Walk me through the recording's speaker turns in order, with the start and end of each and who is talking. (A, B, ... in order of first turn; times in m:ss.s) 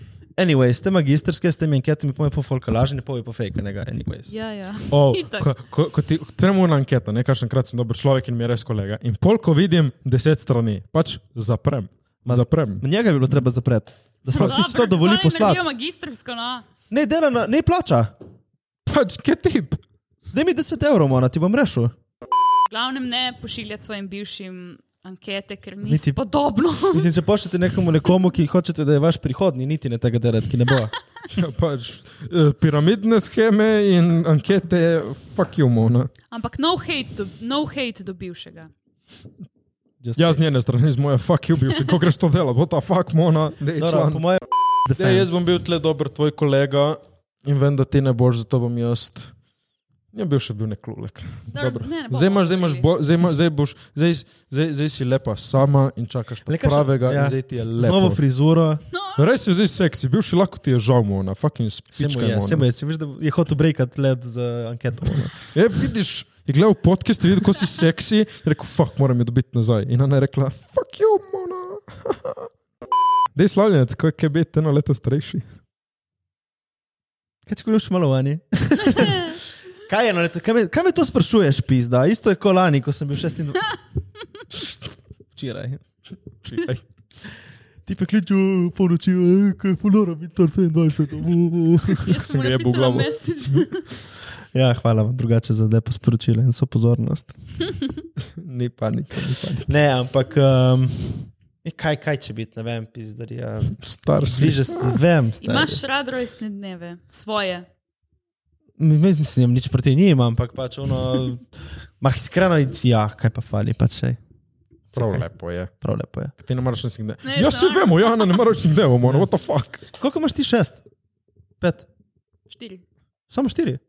0:00.4-0:04.3 A
0:04.3-0:05.5 B
0:04.9-0:12.8 C
0:12.2-0:15.6 A
0:14.3-0:16.6 B
0:16.9-0:18.1 A
0:18.8-0:19.8 C
0:20.3-0:21.9 A
0:22.7-0:27.1 B
0:25.8-0:26.2 A
0:26.9-0:30.9 A
0:31.3-0:36.1 C
0:36.3-0:38.7 B
0:40.0-0:40.4 A
0:40.2-0:44.2 C
0:43.8-0:45.4 A
0:45.0-0:49.3 C
0:50.1-0:58.2 C
0:51.5-0:52.8 B
0:56.5-0:58.8 A
0:58.9-0:59.2 B
0:59.2-1:02.6 C
1:01.9-1:05.3 A
1:05.2-1:12.5 C
1:13.3-1:15.4 C
1:17.4-1:23.7 A
1:18.9-1:19.4 B
1:25.3-1:25.8 A
1:26.4-1:26.8 C
1:27.8-1:32.1 A
1:32.0-1:33.9 B
1:32.1-1:33.6 C
1:34.5-1:37.3 A
1:38.4-1:39.7 C
1:39.7-1:45.8 A
1:43.8-1:45.0 C
1:45.4-1:47.6 B
1:48.8-1:54.2 A
1:54.9-1:55.2 A
1:54.9-1:55.7 C
1:55.8-1:56.3 A
1:56.4-1:59.8 C
1:57.2-1:58.4 B
1:59.9-2:00.8 A
2:01.6-2:01.9 A
2:02.5-2:02.8 B
2:03.3-2:03.8 A